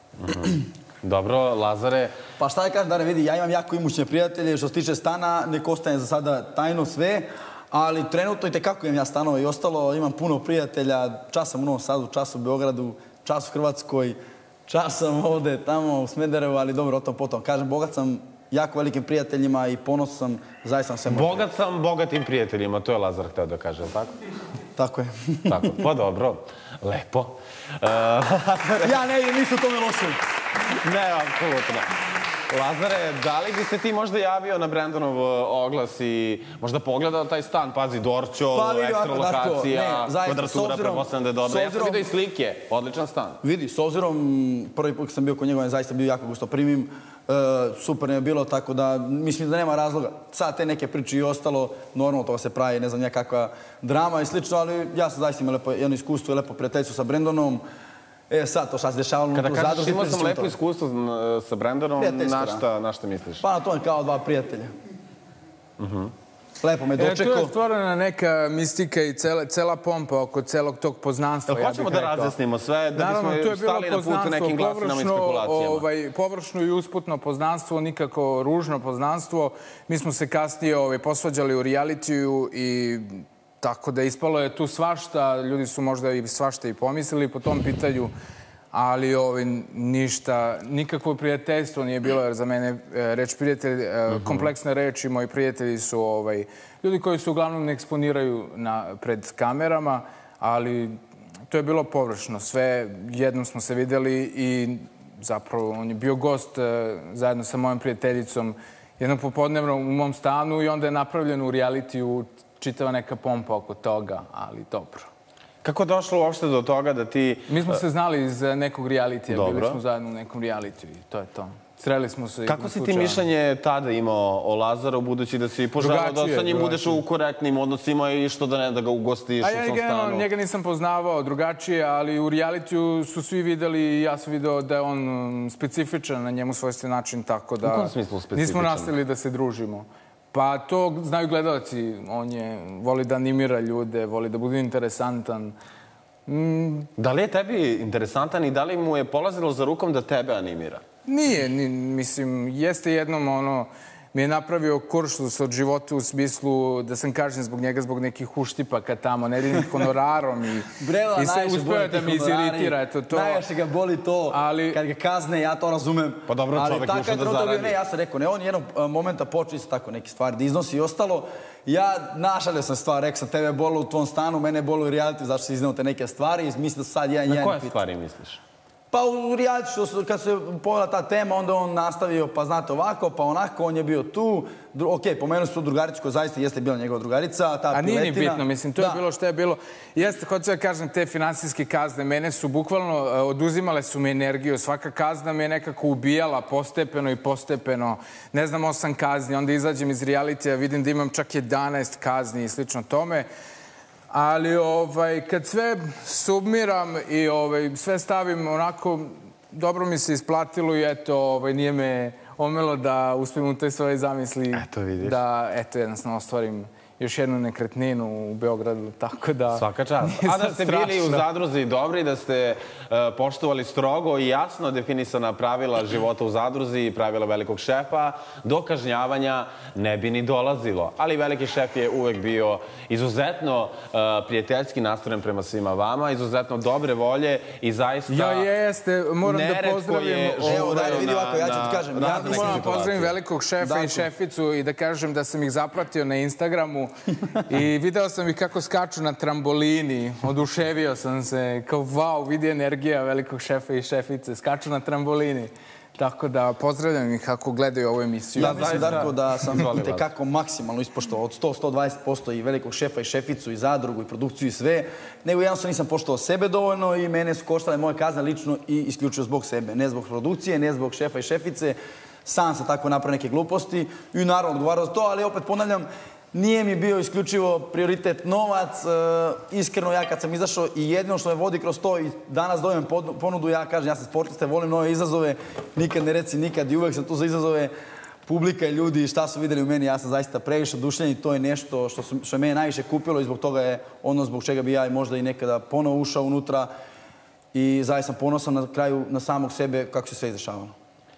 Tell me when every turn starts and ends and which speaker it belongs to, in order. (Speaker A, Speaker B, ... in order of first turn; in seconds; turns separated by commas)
Speaker A: 0.2-2.1, Speaker B: 2.4-21.4, Speaker A: 21.1-24.1, Speaker B: 24.8-25.8, Speaker A: 25.5-28.9, Speaker B: 28.8-30.2, Speaker A: 30.8-31.9, Speaker A: 32.5-43.4, Speaker B: 38.5-42.1, Speaker B: 43.4-57.6, Speaker B: 58.3-60.5, Speaker A: 59.3-63.4, Speaker B: 62.0-62.6, Speaker B: 63.4-64.7, Speaker A: 65.8-66.1, Speaker B: 66.6-67.5, Speaker C: 67.0-72.4, Speaker A: 71.5-75.8, Speaker C: 73.0-88.1, Speaker C: 88.7-101.0, Speaker A: 94.1-94.5, Speaker C: 101.5-115.1, Speaker A: 115.6-117.8, Speaker C: 117.5-123.2, Speaker A: 119.3-119.8, Speaker A: 122.5-130.2, Speaker C: 125.8-127.0, Speaker C: 129.4-145.6, Speaker A: 137.6-138.9, Speaker C: 146.3-146.9, Speaker A: 147.0-150.8, Speaker C: 151.1-163.4, Speaker B: 160.8-177.8, Speaker C: 164.3-164.8, Speaker A: 166.3-167.8, Speaker A: 177.3-178.4, Speaker B: 178.9-189.0, Speaker C: 187.7-203.3, Speaker C: 204.1-221.2, Speaker A: 214.5-215.2, Speaker A: 219.5-238.5, Speaker C: 238.1-241.1, Speaker A: 239.2-243.1, Speaker B: 240.4-242.7, Speaker C: 242.0-259.1, Speaker B: 243.6-244.1, Speaker A: 258.4-260.1, Speaker B: 258.4-287.7, Speaker B: 288.2-296.7, Speaker B: 297.5-300.7